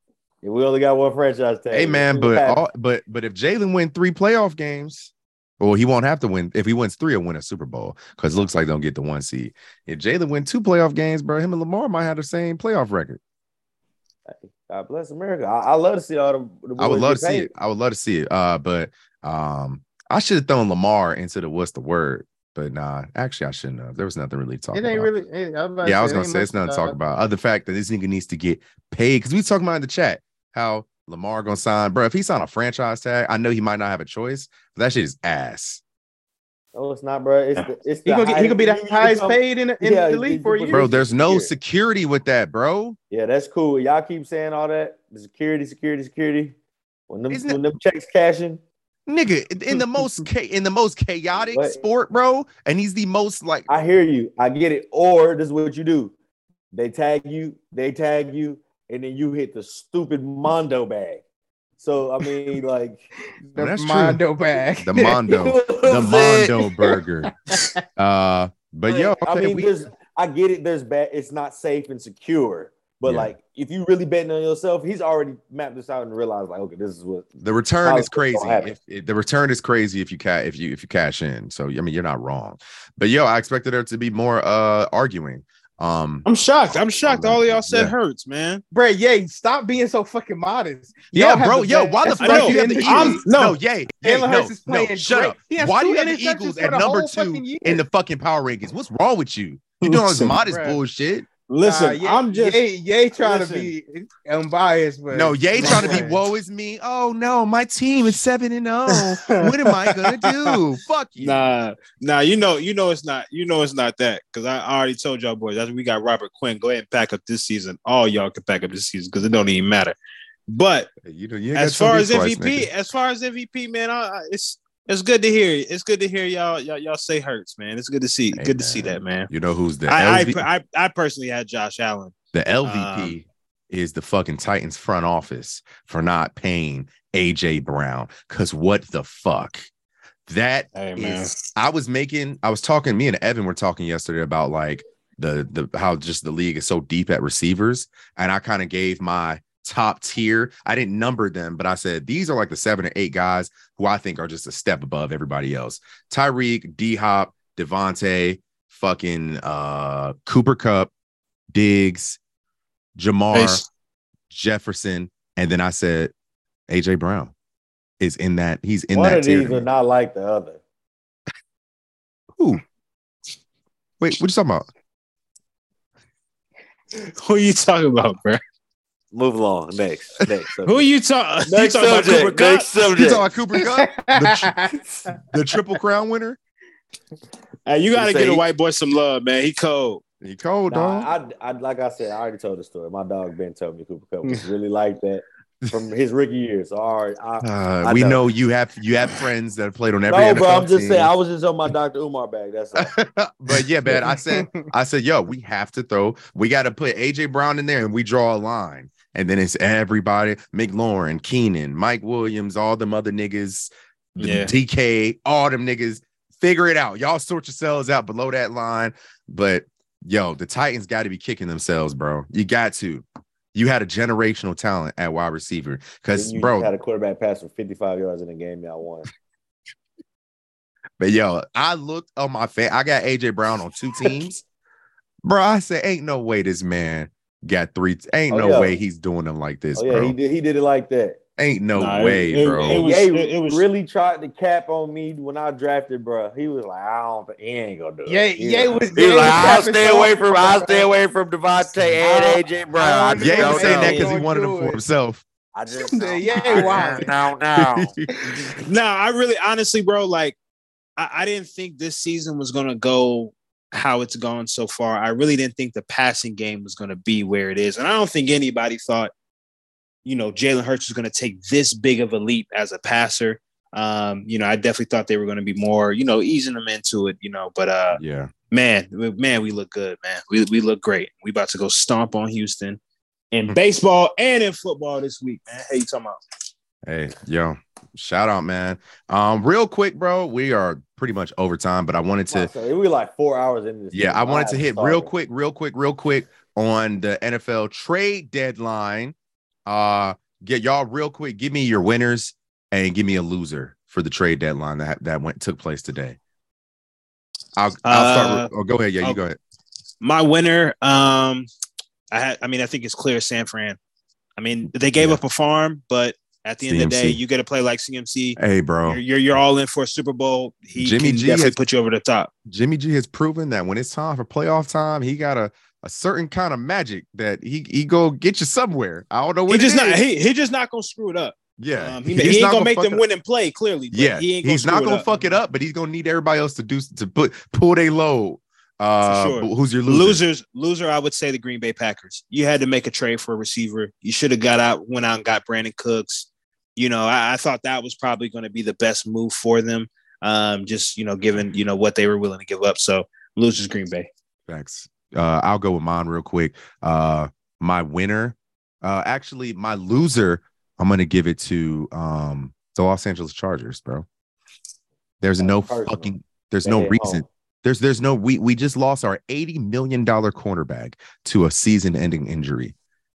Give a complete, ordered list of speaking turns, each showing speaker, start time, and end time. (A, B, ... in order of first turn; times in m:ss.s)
0:00.4-0:02.6 A
0:01.7-0:13.2 B
0:14.2-0:17.5 A
0:16.8-0:25.1 B
0:24.7-0:27.0 C
0:25.8-0:35.8 B
0:36.7-0:41.5 A
0:38.0-0:40.9 C
0:40.7-0:43.0 B
0:43.1-0:46.6 A
0:47.1-0:48.6 A
0:47.3-0:47.6 B
0:49.1-0:53.7 B
0:51.4-0:51.8 A
0:53.7-0:56.1 A
0:56.7-1:01.2 A
1:01.8-1:03.1 A
1:03.4-1:05.2 C
1:03.6-1:04.2 B
1:04.8-1:07.3 B
1:05.2-1:06.5 A
1:08.0-1:09.7 B
1:08.9-1:17.3 A
1:13.0-1:13.3 B
1:17.4-1:26.2 B
1:17.8-1:18.7 A
1:26.2-1:28.6 D
1:27.0-1:27.9 B
1:28.7-1:33.2 C
1:31.1-1:41.3 B
1:32.2-1:33.6 D
1:34.0-1:37.8 C
1:39.8-1:40.4 D
1:40.4-1:40.8 C
1:41.5-1:42.6 D
1:41.6-1:46.2 C
1:43.2-1:43.7 D
1:45.1-1:51.5 B
1:45.6-1:46.0 D
1:51.2-2:00.0 D
2:00.5-2:00.9 D
2:01.0-2:02.7 B
2:01.5-2:09.3 D
2:08.3-2:10.4 B
2:09.9-2:12.1 D
2:12.3-2:19.7 B
2:12.6-2:13.2 D
2:20.3-2:40.9 B
2:20.7-2:21.3 D
2:41.5-2:42.2 B
2:43.0-2:43.6 B
2:43.3-2:43.6 D
2:44.3-2:46.1 B
2:46.7-2:47.3 B
2:48.0-2:49.6 B
2:48.9-2:50.6 A
2:54.0-2:54.7 B
2:57.0-2:58.4 D
2:59.1-3:00.8 A
3:00.6-3:02.7 D
3:01.4-3:03.3 A
3:02.9-3:04.5 B
3:03.6-3:04.8 C
3:05.3-3:06.4 B
3:07.6-3:10.0 D
3:07.9-3:08.4 A
3:10.2-3:11.1 B
3:10.7-3:18.2 A
3:17.4-3:21.1 B
3:20.1-3:22.9 A
3:22.8-3:46.7 B
3:24.3-3:24.7 C
3:34.2-3:34.5 D
3:46.1-3:49.1 A
3:51.0-3:54.4 B
3:55.2-4:00.2 B
3:58.3-3:58.8 A
3:59.8-4:01.2 A
4:01.4-4:02.8 B
4:01.7-4:03.6 D
4:02.5-4:14.2 A
4:08.1-4:10.9 C
4:12.0-4:14.8 C
4:13.2-4:15.2 B
4:15.5-4:18.0 A
4:15.8-4:17.1 C
4:16.5-4:17.0 B
4:17.6-4:18.0 B
4:18.6-4:20.4 D
4:21.0-4:29.1 D
4:30.0-4:42.8 D
4:37.9-4:38.3 B
4:43.3-4:46.2 D
4:46.8-4:52.5 B
4:52.3-4:55.1 A
4:53.9-4:59.1 B
4:59.7-5:06.2 B
5:07.6-5:09.4 B
5:07.8-5:08.5 D
5:10.0-5:11.5 D
5:12.1-5:13.8 D
5:14.4-5:22.3 D
5:16.6-5:17.2 B
5:18.4-5:19.0 B
5:20.8-5:21.6 B
5:22.4-5:30.0 B
5:29.5-5:35.1 D
5:31.6-5:33.0 B
5:33.9-5:40.2 B
5:39.0-5:54.1 D
5:54.5-6:04.0 B
6:05.2-6:12.7 B
6:05.4-6:06.1 A
6:06.6-6:07.2 A